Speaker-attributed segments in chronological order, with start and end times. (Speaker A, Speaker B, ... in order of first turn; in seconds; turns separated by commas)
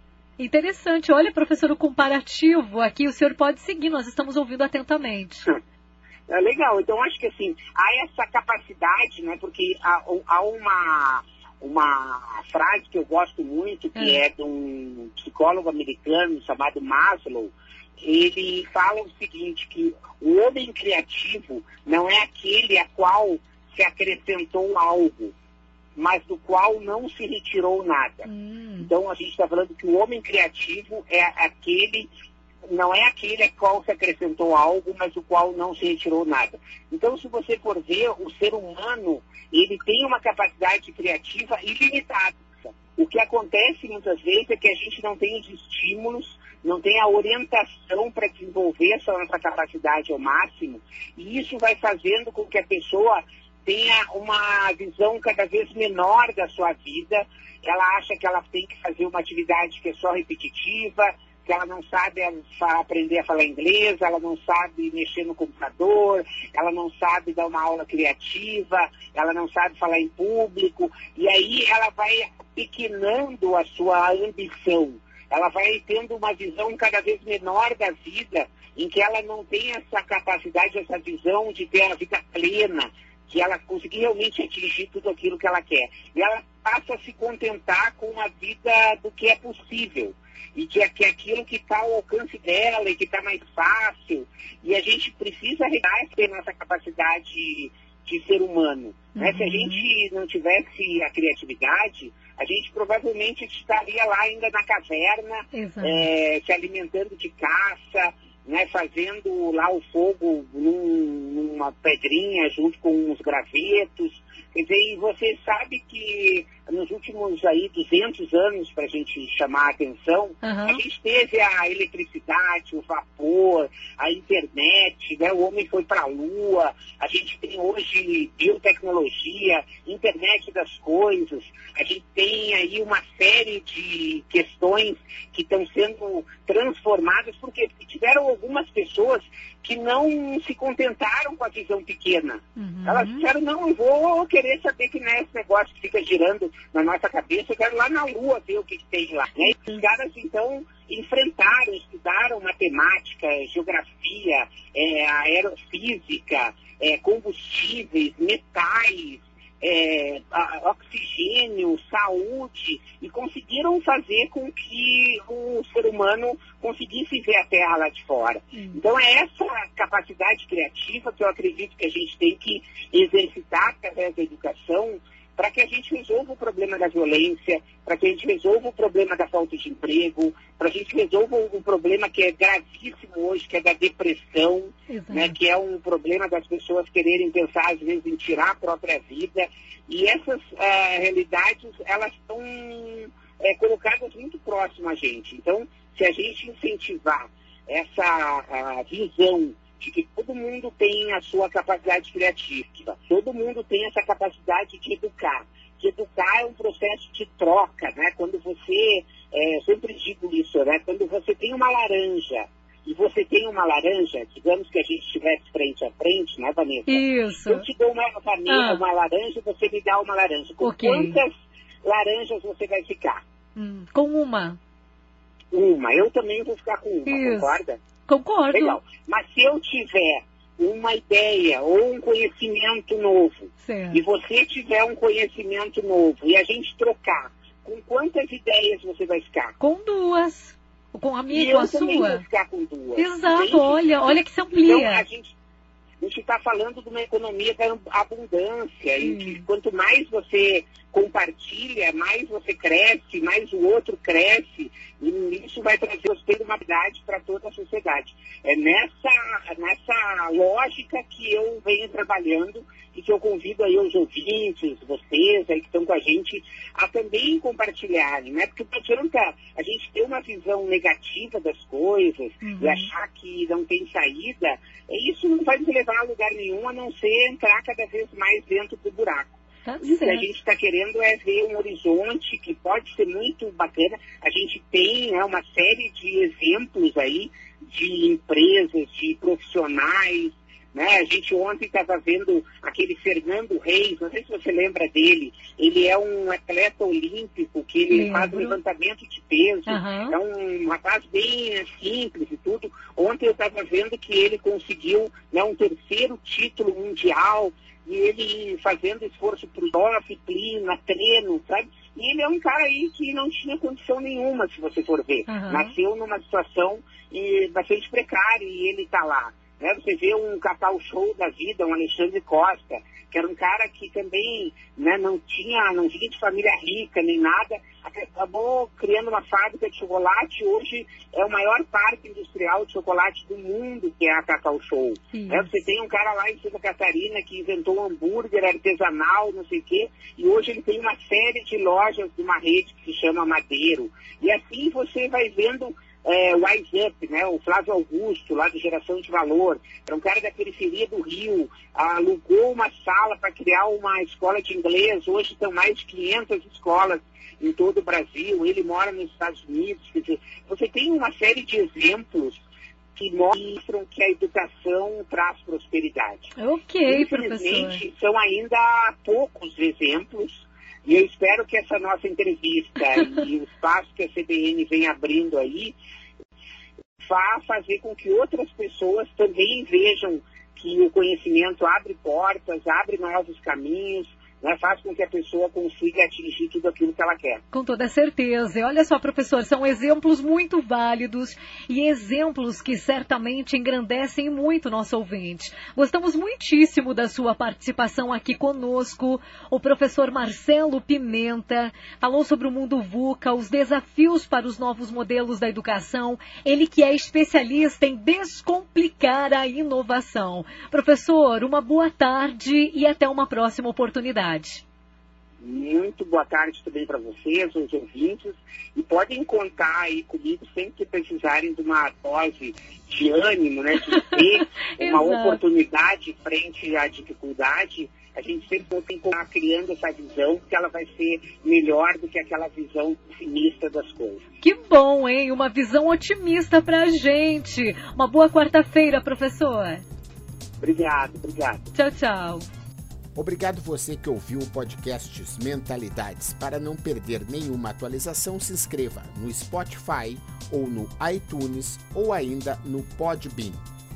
Speaker A: 0.4-5.5, Speaker B: 6.3-25.3, Speaker A: 13.9-14.2, Speaker B: 25.9-32.1, Speaker A: 28.2-28.9, Speaker B: 32.6-223.2, Speaker A: 99.1-99.9, Speaker A: 105.5-106.1, Speaker A: 120.4-120.8, Speaker A: 142.6-143.2, Speaker A: 149.4-149.8, Speaker A: 168.5-168.8, Speaker A: 184.9-185.3, Speaker A: 216.9-217.6, Speaker A: 218.5-218.8, Speaker A: 220.6-221.2, Speaker A: 223.6-224.6, Speaker B: 225.5-227.8, Speaker A: 227.1-227.6, Speaker A: 228.1-228.8, Speaker B: 228.5-239.5, Speaker A: 233.6-234.0, Speaker A: 239.6-242.2, Speaker B: 241.3-245.3, Speaker A: 242.9-245.1, Speaker B: 246.0-362.4, Speaker A: 249.0-249.4, Speaker A: 272.4-272.9, Speaker A: 279.6-280.3, Speaker A: 297.9-298.6, Speaker A: 299.6-300.1, Speaker A: 315.3-315.7, Speaker A: 335.1-335.6, Speaker B: 362.9-366.3, Speaker A: 366.4-367.8, Speaker B: 366.9-375.7, Speaker B: 377.0-387.4, Speaker A: 387.5-414.6, Speaker B: 415.4-434.2, Speaker A: 423.9-425.4, Speaker A: 434.4-439.8, Speaker B: 440.6-441.7, Speaker A: 441.7-442.4, Speaker C: 443.1-453.6